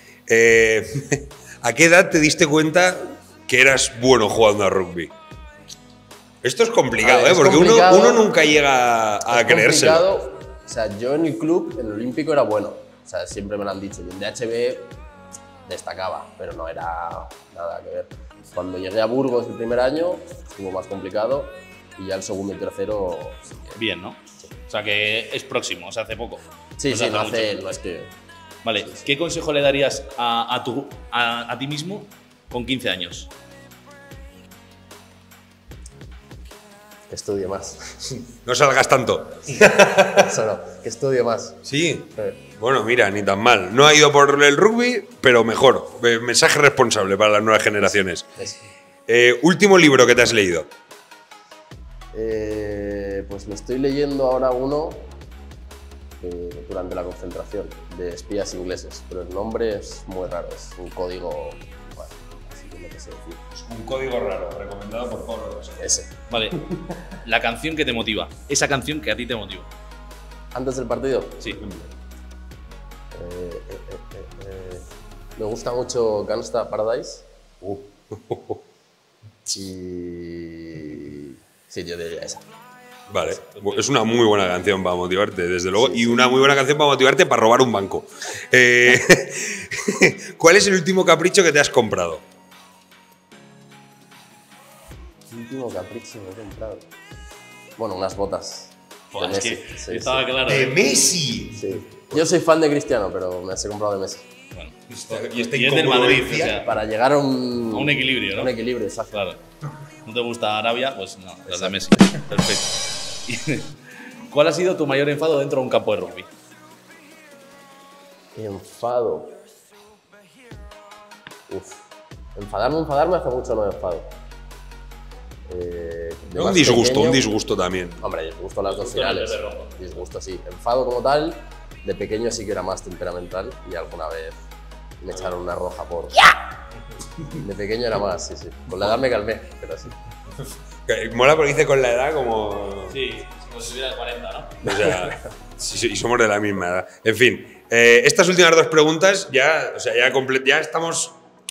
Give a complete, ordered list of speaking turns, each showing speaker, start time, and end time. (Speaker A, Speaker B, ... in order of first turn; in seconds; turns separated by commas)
Speaker A: 0.3-5.1, Speaker A: 6.4-10.1, Speaker B: 7.0-8.2, Speaker B: 9.3-14.9, Speaker B: 15.7-23.6, Speaker C: 23.7-27.5, Speaker B: 26.8-28.1, Speaker C: 28.6-33.3, Speaker B: 37.1-38.1, Speaker A: 38.3-40.2, Speaker B: 40.1-41.6, Speaker A: 41.6-48.3, Speaker B: 42.1-42.4, Speaker A: 49.1-50.7, Speaker B: 52.1-55.1, Speaker B: 56.2-63.4, Speaker A: 63.5-65.9, Speaker B: 65.8-66.1, Speaker C: 66.3-66.6, Speaker A: 66.6-67.0, Speaker C: 67.2-69.7, Speaker B: 70.5-71.4, Speaker A: 71.5-71.9, Speaker B: 73.1-74.8, Speaker B: 75.4-77.3, Speaker A: 77.6-78.6, Speaker B: 79.5-82.4, Speaker A: 83.1-92.2, Speaker C: 83.5-83.9, Speaker B: 85.8-86.2, Speaker B: 95.3-96.9, Speaker B: 97.8-100.3, Speaker C: 99.1-101.1, Speaker A: 100.4-102.2, Speaker B: 101.6-104.2, Speaker C: 104.5-106.7, Speaker A: 104.9-106.6, Speaker B: 106.5-109.2, Speaker C: 107.7-108.5, Speaker C: 109.1-109.4, Speaker C: 110.0-116.3, Speaker B: 111.5-111.9, Speaker B: 118.3-119.4, Speaker B: 121.5-121.8, Speaker B: 122.3-124.1, Speaker B: 125.5-127.3, Speaker A: 126.3-128.0, Speaker B: 128.0-134.4, Speaker C: 128.7-129.8, Speaker B: 135.0-136.3, Speaker B: 137.3-139.9, Speaker A: 140.8-143.0, Speaker C: 142.9-144.7, Speaker A: 144.6-151.2, Speaker B: 144.6-145.1